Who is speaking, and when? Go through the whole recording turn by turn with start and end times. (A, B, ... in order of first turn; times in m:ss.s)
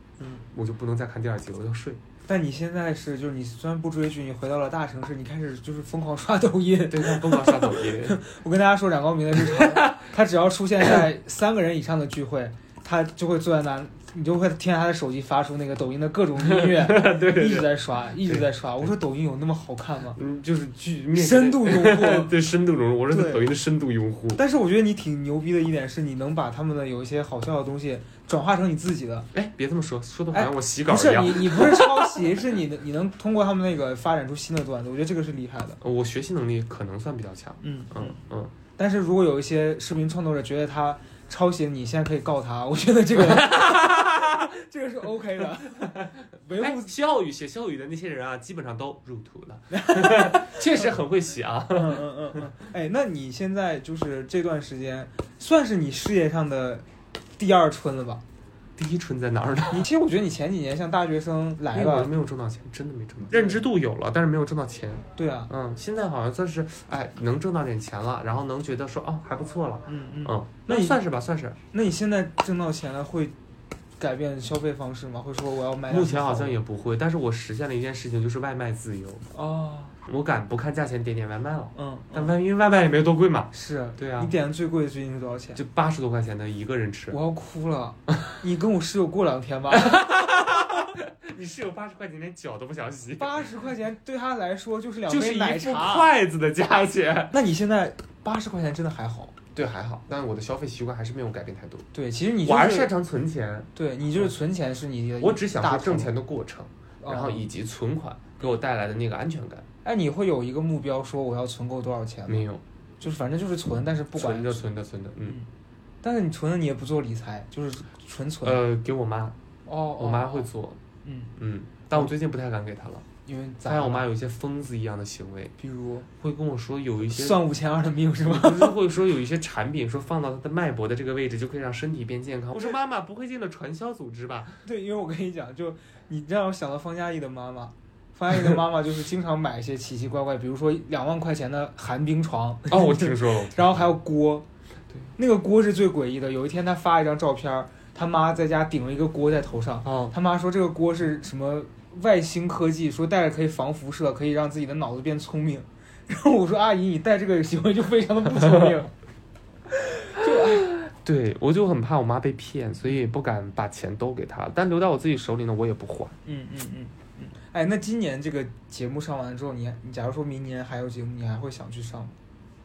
0:00.4-0:02.0 A
0:02.2-0:20.2 B
0:06.9-0:08.2 A
0:09.4-0:10.0 A
0:16.4-0:17.7 A
0:18.2-0:18.9 A
0:20.2-0:24.4 A
0:21.1-0:22.3 B
0:23.1-0:23.4 B
0:24.4-0:29.3 B
0:29.3-0:32.2 A
0:30.3-0:35.8 B
0:35.8-0:38.5 A
0:37.6-0:38.2 B
0:38.7-0:46.9 B
0:43.1-0:44.5 A
0:45.8-0:52.4 A
0:49.7-0:50.8 B
0:51.7-0:56.8 B
0:57.4-0:58.2 B
0:58.8-0:59.9 A
0:59.7-1:02.1 B
1:01.7-1:11.6 A
1:03.3-1:03.6 B
1:05.2-1:05.5 B
1:09.9-1:11.0 B
1:11.7-1:13.3 B
1:14.0-1:16.6 B
1:15.9-1:19.3 A
1:19.3-1:20.0 B
1:20.0-1:24.3 A
1:21.7-1:22.3 B
1:23.5-1:25.6 B
1:25.6-1:27.2 A
1:27.1-1:30.1 B
1:29.8-1:33.4 A
1:33.2-1:36.1 B
1:35.0-1:37.4 A
1:37.3-1:39.4 B
1:39.5-1:41.9 A
1:41.9-1:42.9 B
1:42.4-1:44.3 A
1:43.7-1:46.2 B
1:45.2-1:49.6 A
1:47.0-1:47.5 B
1:49.8-1:52.5 B
1:52.3-1:52.6 A
1:53.0-1:54.7 B
1:54.1-1:55.4 A
1:56.0-1:58.6 B
1:58.4-1:59.4 A
1:59.6-2:00.5 B
2:00.0-2:00.8 A
2:01.0-2:01.3 B
2:01.4-2:03.0 A
2:03.2-2:04.0 B
2:03.6-2:05.5 A
2:05.6-2:06.1 B
2:06.2-2:07.4 A
2:07.0-2:08.8 B
2:08.2-2:14.6 A
2:14.6-2:24.4 B
2:22.7-2:23.9 A
2:25.2-2:38.9 B
2:29.8-2:30.1 A
2:39.7-2:40.7 B
2:40.3-2:46.2 A
2:46.2-2:52.1 B